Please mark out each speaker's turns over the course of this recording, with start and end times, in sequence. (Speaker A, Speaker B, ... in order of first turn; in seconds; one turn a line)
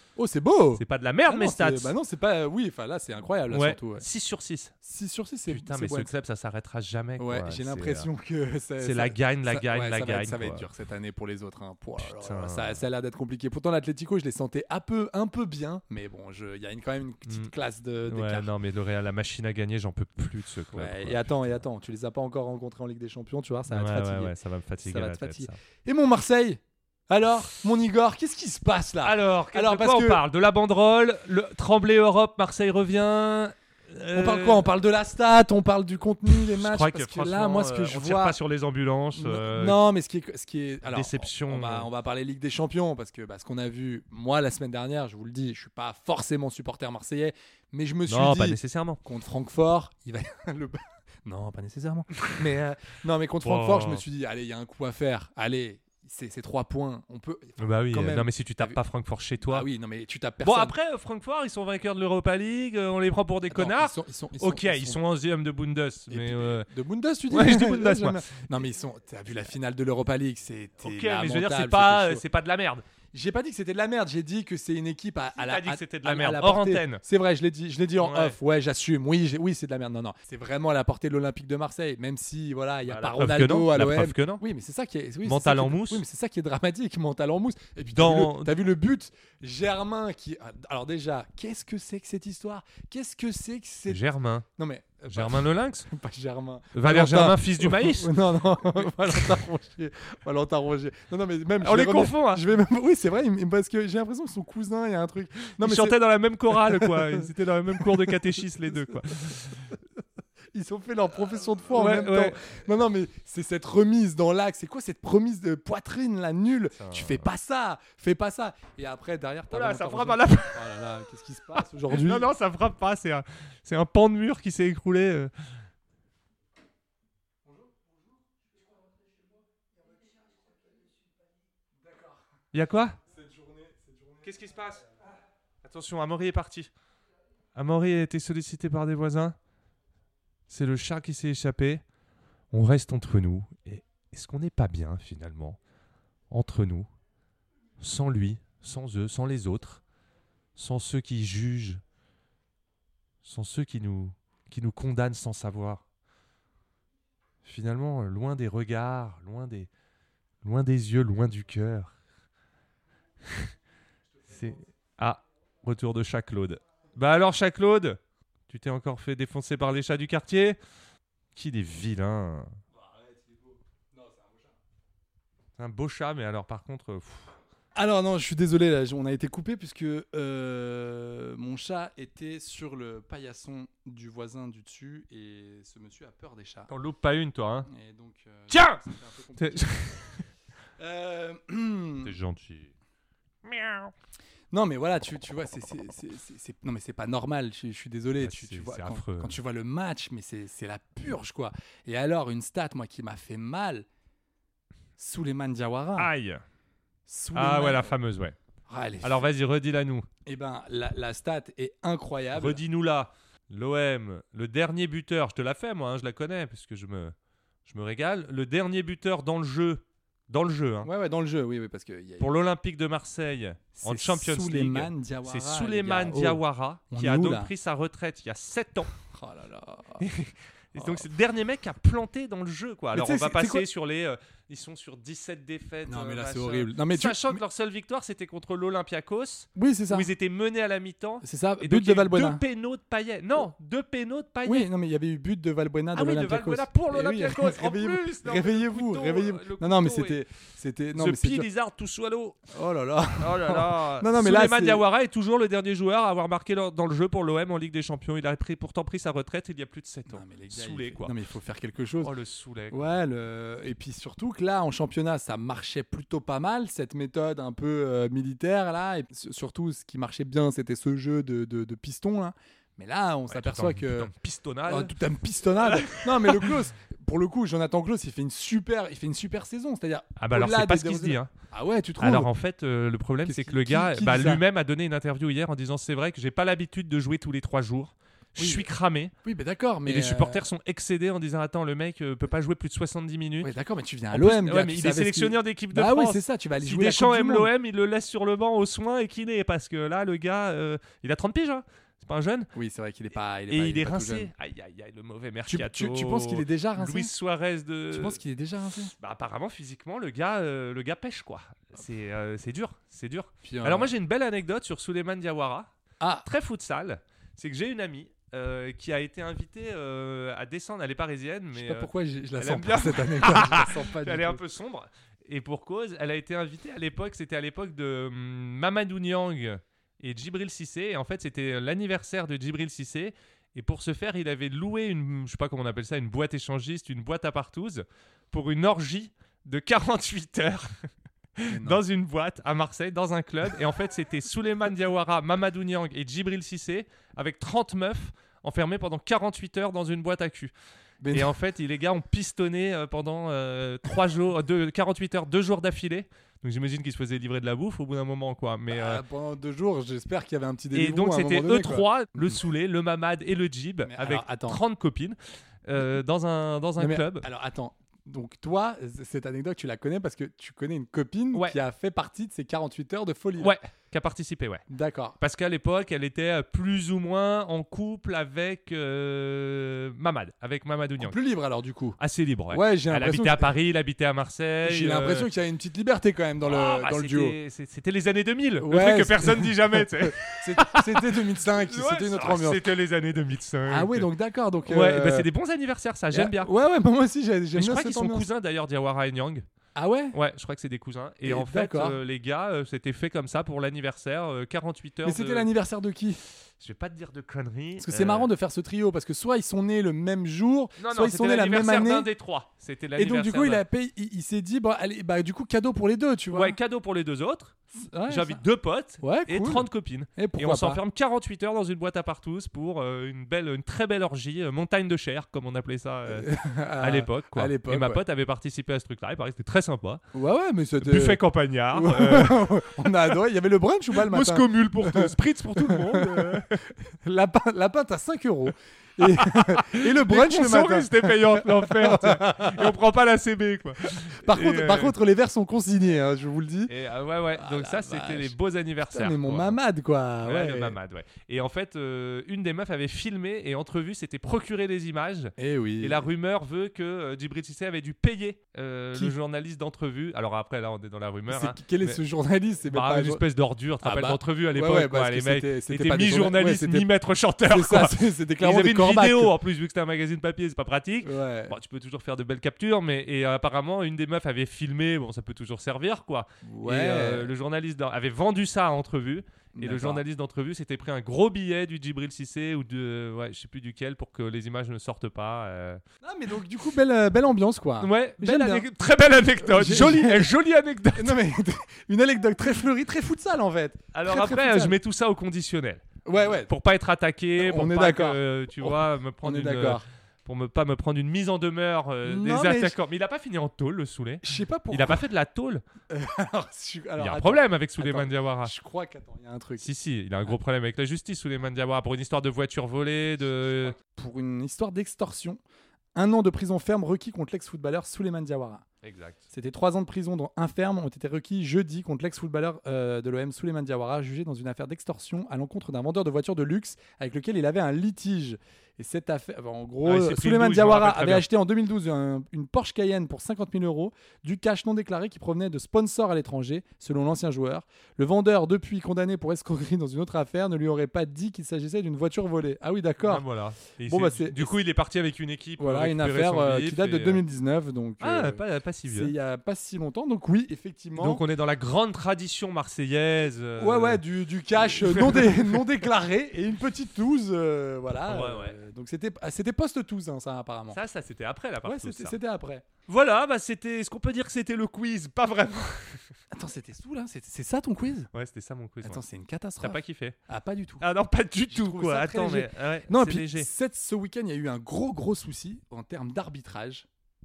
Speaker A: 0.1-4.0
Speaker B: 0.8-1.9
Speaker B: 3.5-4.7
Speaker A: 4.8-6.1
Speaker B: 5.5-8.1
Speaker A: 7.2-18.5
Speaker B: 8.8-10.7
Speaker B: 12.0-12.8
Speaker B: 17.3-17.5
Speaker B: 18.1-21.6
Speaker A: 20.7-30.2
Speaker B: 23.7-25.6
Speaker B: 29.0-34.7
Speaker A: 34.1-38.4
Speaker B: 36.3-39.8
Speaker A: 39.1-58.8
Speaker B: 40.8-41.9
Speaker B: 48.1-49.0
Speaker B: 52.2-54.0
Speaker B: 57.6-59.6
Speaker A: 59.4-60.7
Speaker B: 60.4-66.7
Speaker A: 63.5-65.0
Speaker A: 66.1-72.2
Speaker B: 67.3-68.2
Speaker B: 70.8-72.8
Speaker A: 73.1-106.0
Speaker B: 75.3-77.0
Speaker B: 78.0-78.4
Speaker B: 82.9-84.4
Speaker B: 85.2-86.0
Speaker B: 87.9-88.5
Speaker B: 93.9-94.5
Speaker B: 95.1-95.9
Speaker B: 96.7-99.3
Speaker B: 101.6-102.5
Speaker B: 105.6-109.7
Speaker A: 106.5-109.0
Speaker A: 110.5-122.3
Speaker B: 111.7-112.4
Speaker B: 116.7-117.3
Speaker B: 119.5-120.8
Speaker B: 121.5-125.3
Speaker A: 127.4-128.2
Speaker A: 128.8-131.0
Speaker A: 131.7-132.2
Speaker B: 132.5-133.0
Speaker A: 133.1-135.0
Speaker B: 134.2-134.8
Speaker B: 135.6-136.7
Speaker B: 137.5-139.3
Speaker B: 140.5-141.8
Speaker B: 142.5-145.6
Speaker B: 146.3-146.9
Speaker B: 147.8-149.8
Speaker B: 150.6-151.8
Speaker B: 153.2-155.8
Speaker B: 157.4-159.7
Speaker B: 160.4-161.9
Speaker A: 164.2-164.6
Speaker B: 164.3-170.6
Speaker B: 171.3-172.5
Speaker A: 172.7-174.6
Speaker B: 175.6-177.3
Speaker A: 177.7-186.7
Speaker B: 186.7-187.7
Speaker A: 187.7-190.0
Speaker B: 188.5-188.8
Speaker B: 189.4-190.2
Speaker A: 190.8-192.2
Speaker B: 192.0-192.7
Speaker B: 193.4-193.9
Speaker A: 194.5-203.8
Speaker B: 198.2-199.3
Speaker A: 205.0-206.1
Speaker B: 205.9-206.4
Speaker A: 207.1-207.9
Speaker B: 207.3-208.3
Speaker A: 208.7-209.3
Speaker B: 209.0-210.1
Speaker A: 210.2-212.6
Speaker B: 212.3-217.1
Speaker B: 217.7-220.9
Speaker A: 220.8-222.3
Speaker B: 222.2-228.9
Speaker A: 223.7-227.5
Speaker A: 229.0-230.0
Speaker B: 230.0-244.7
Speaker A: 230.7-231.1
Speaker A: 232.9-233.7
Speaker A: 235.8-237.4
Speaker A: 239.5-240.1
Speaker A: 241.2-242.4
Speaker A: 244.4-251.4
Speaker B: 245.9-250.2
Speaker B: 250.9-252.4
Speaker A: 252.5-254.8
Speaker B: 253.2-261.1
Speaker A: 260.1-262.1
Speaker B: 262.0-262.8
Speaker A: 262.7-274.1
Speaker B: 273.3-274.9
Speaker A: 274.6-282.3
Speaker B: 275.6-276.5
Speaker B: 280.2-281.3
Speaker B: 282.0-289.1
Speaker A: 283.2-284.4
Speaker A: 288.4-288.7
Speaker A: 289.2-290.4
Speaker B: 289.9-293.5
Speaker A: 293.4-297.5
Speaker B: 294.1-302.5
Speaker A: 302.5-304.3
Speaker B: 303.5-308.2
Speaker A: 305.5-307.1
Speaker A: 307.9-308.9
Speaker B: 309.0-315.7
Speaker A: 313.4-313.9
Speaker A: 316.0-316.2
Speaker B: 316.2-350.5
Speaker A: 321.5-324.4
Speaker A: 341.5-341.8
Speaker A: 351.0-351.3
Speaker B: 351.1-359.0
Speaker A: 358.7-362.4
Speaker B: 360.7-367.3
Speaker A: 363.8-364.6
Speaker A: 366.8-373.6
Speaker B: 371.3-371.6
Speaker B: 373.4-374.6
Speaker A: 374.7-375.2
Speaker B: 375.2-381.1
Speaker A: 381.0-382.0
Speaker B: 382.0-385.3
Speaker A: 382.5-383.5
Speaker A: 384.6-387.4
Speaker B: 386.4-394.1
Speaker A: 388.6-392.7
Speaker A: 393.6-395.3
Speaker B: 394.7-396.5
Speaker A: 396.1-398.3
Speaker B: 397.6-399.4
Speaker A: 399.8-400.1
Speaker B: 400.1-405.5
Speaker A: 401.2-402.0
Speaker A: 405.0-406.2
Speaker B: 406.6-408.3
Speaker A: 407.8-412.1
Speaker B: 410.8-413.6
Speaker A: 412.9-416.6
Speaker B: 416.3-430.0
Speaker A: 417.8-418.4
Speaker A: 419.0-420.8
Speaker A: 426.1-428.0
Speaker A: 430.1-442.7
Speaker B: 430.8-432.5
Speaker B: 433.9-436.6
Speaker B: 439.0-444.9
Speaker A: 443.8-446.7
Speaker B: 446.7-449.6
Speaker A: 447.3-448.3
Speaker A: 448.9-450.8
Speaker B: 450.2-462.0
Speaker A: 455.4-456.1
Speaker A: 461.3-463.2
Speaker B: 462.6-485.8
Speaker A: 463.8-466.9
Speaker A: 467.5-469.4
Speaker A: 471.0-471.5
Speaker A: 476.4-477.3
Speaker A: 479.5-480.0
Speaker A: 486.0-488.7
Speaker B: 487.8-491.2
Speaker A: 489.4-490.3
Speaker A: 490.9-494.8
Speaker B: 493.9-495.8
Speaker A: 496.0-496.5
Speaker B: 496.5-505.6
Speaker A: 497.4-499.8
Speaker A: 502.0-502.8
Speaker A: 504.2-505.1
Speaker A: 505.9-509.7
Speaker B: 507.0-508.5
Speaker B: 509.6-513.8
Speaker A: 513.2-515.4
Speaker A: 515.9-518.6
Speaker B: 518.8-519.2
Speaker A: 519.3-543.2
Speaker B: 529.8-531.2
Speaker B: 543.0-547.2
Speaker A: 543.8-544.6
Speaker A: 545.6-551.2
Speaker B: 548.0-549.1
Speaker B: 551.0-554.0
Speaker A: 553.6-560.8
Speaker B: 554.5-555.6
Speaker B: 558.0-558.6
Speaker B: 560.7-562.2
Speaker A: 561.6-562.6
Speaker B: 562.9-566.0
Speaker A: 566.3-568.1
Speaker B: 568.1-569.0
Speaker A: 568.8-570.8
Speaker B: 569.6-570.1
Speaker B: 570.8-573.5
Speaker A: 571.5-576.9